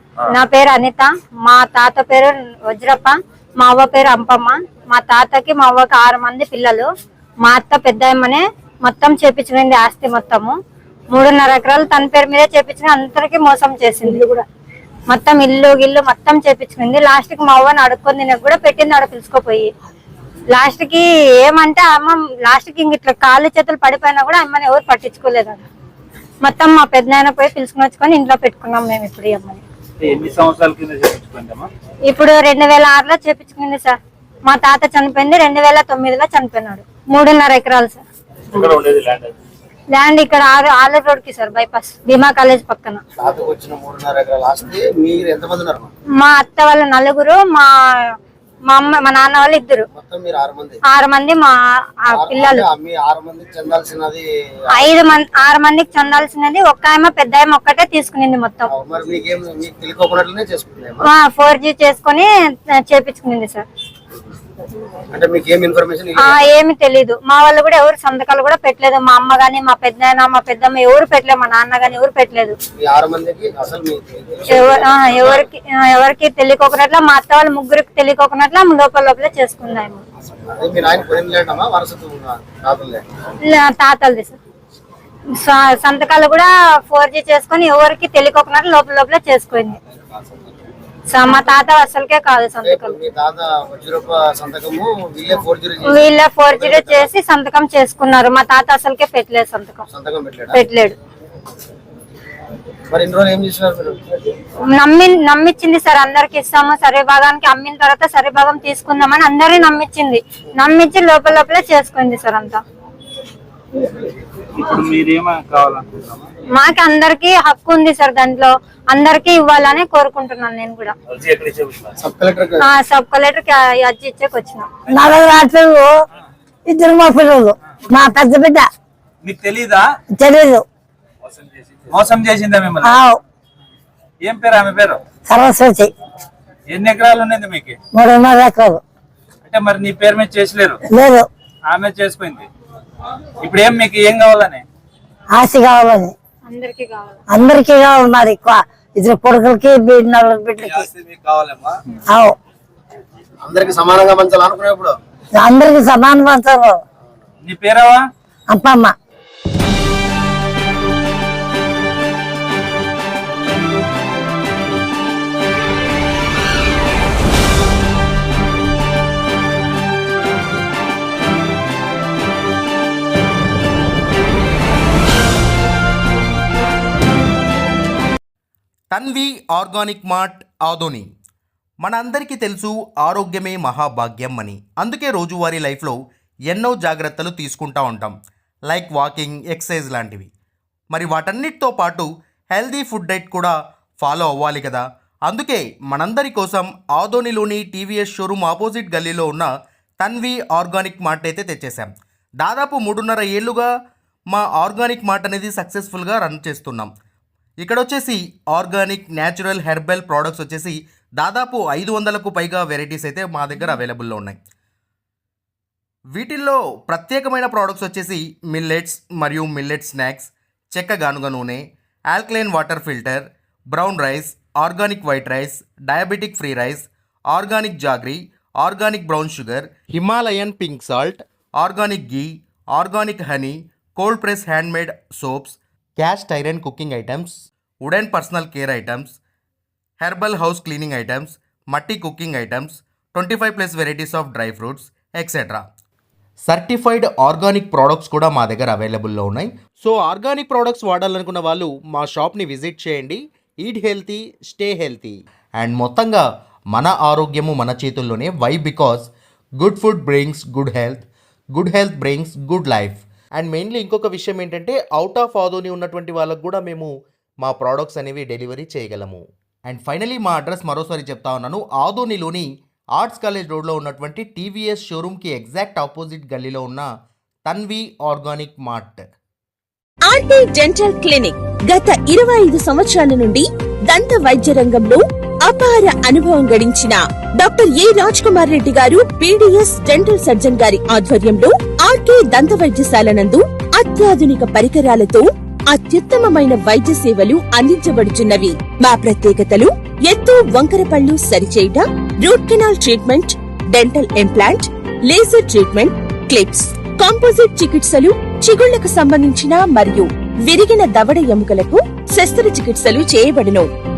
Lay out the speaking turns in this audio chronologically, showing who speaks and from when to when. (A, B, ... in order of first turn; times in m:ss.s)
0:00.3-0:06.9 A
0:07.4-0:10.6 A
0:11.1-0:14.4 A
0:15.1-0:19.7 A
0:20.5-0:25.6 A
0:26.4-0:29.6 A
0:30.0-0:31.7 B
0:32.1-0:38.0 A
0:38.5-0:39.4 B
0:39.9-0:43.0 A
0:43.2-0:45.9 C
0:46.2-0:48.1 A
0:48.7-0:49.8 A
0:49.9-0:50.8 C
0:50.9-0:51.5 A
0:52.1-0:52.6 A
0:52.1-0:54.3 C
0:54.7-0:58.7 A
0:58.7-1:01.1 C
1:01.0-1:03.6 A
1:05.1-1:06.4 C
1:06.2-1:12.6 A
1:12.8-1:15.4 C
1:14.5-1:20.0 A
1:20.5-1:23.0 C
1:23.5-1:24.4 A
1:25.4-1:29.8 A
1:31.1-1:33.0 A
1:32.6-1:37.1 C
1:35.8-1:39.8 A
1:39.9-1:40.6 C
1:40.5-1:41.0 A
1:42.9-1:44.3 C
1:44.7-1:52.6 A
1:54.5-1:56.3 B
1:56.5-2:00.9 A
2:01.1-2:01.9 B
2:02.0-2:02.7 C
2:02.6-2:04.7 A
2:04.9-2:06.0 D
2:06.7-2:08.7 D
2:09.2-2:10.0 B
2:10.2-2:10.6 D
2:11.2-2:13.0 B
2:12.8-2:13.2 D
2:14.2-2:15.0 B
2:15.3-2:15.9 D
2:16.7-2:17.8 B
2:17.9-2:18.8 D
2:19.4-2:20.8 B
2:20.9-2:21.3 D
2:21.7-2:22.5 B
2:23.4-2:24.6 B
2:25.3-2:26.1 D
2:26.4-2:27.2 A
2:27.3-2:30.9 D
2:30.8-2:31.7 B
2:32.1-2:32.4 D
2:33.4-2:35.0 C
2:35.4-2:36.8 D
2:37.4-2:38.1 B
2:38.5-2:38.9 D
2:58.9-3:01.1 E
3:01.8-3:06.0 E
3:06.5-3:08.1 E
3:08.7-3:10.3 E
3:10.9-3:23.7 E
3:24.3-3:26.9 E
3:27.6-3:34.4 E
3:36.1-3:59.2 E
4:00.0-4:05.6 E
4:06.5-4:26.9 E
4:27.4-4:36.9 E
4:37.4-4:39.0 E
4:40.1-5:13.6 F